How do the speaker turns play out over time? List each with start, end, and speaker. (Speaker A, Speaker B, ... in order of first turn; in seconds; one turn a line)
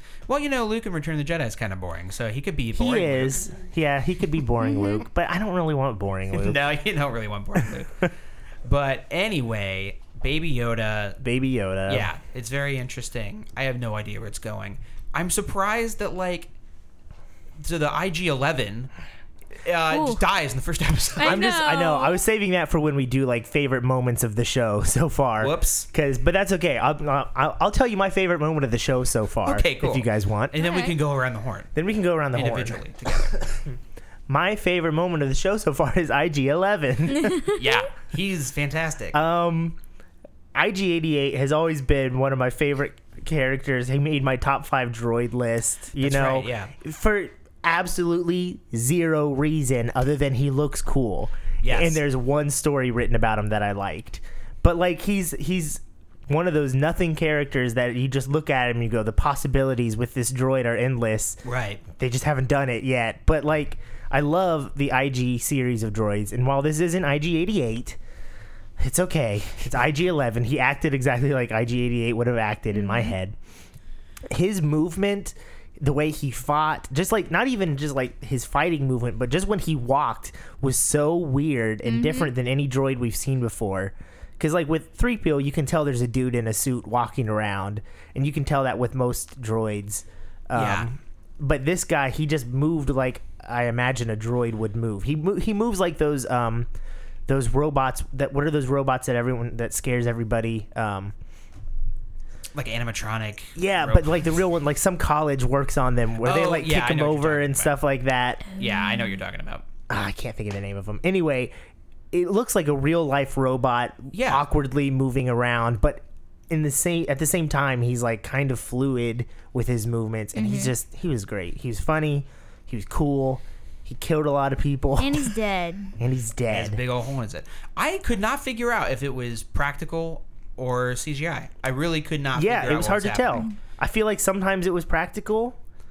Speaker A: 0.3-3.5
Speaker B: 2.7-6.6
Speaker C: 4.7-5.0
Speaker A: 6.3-8.1
Speaker B: 7.5-8.1
Speaker A: 8.6-11.2
Speaker B: 11.2-12.1
Speaker A: 11.9-16.5
Speaker A: 17.6-18.9
Speaker A: 19.6-21.4
Speaker C: 19.9-20.2
Speaker C: 21.2-22.2
Speaker B: 21.2-30.6
Speaker A: 25.4-25.9
Speaker A: 29.4-31.7
Speaker C: 30.6-30.9
Speaker B: 31.7-33.4
Speaker A: 32.3-33.5
Speaker B: 34.3-37.5
Speaker A: 37.5-39.2
Speaker B: 39.1-39.8
Speaker B: 40.5-68.0
Speaker A: 46.0-46.7
Speaker A: 51.6-52.0
Speaker A: 61.4-61.8
Speaker B: 68.8-73.3
Speaker C: 72.7-73.1
Speaker B: 74.3-96.7
Speaker C: 81.8-82.3
Speaker A: 90.5-90.9
Speaker B: 97.3-101.1
Speaker A: 102.5-104.2
Speaker B: 103.5-108.5
Speaker A: 106.2-107.7
Speaker A: 108.5-109.6
Speaker B: 109.9-111.5
Speaker B: 112.1-125.3
Speaker A: 114.1-114.5
Speaker C: 120.3-120.7
Speaker C: 125.0-125.9
Speaker B: 126.0-126.8
Speaker A: 126.5-133.4
Speaker B: 132.3-135.6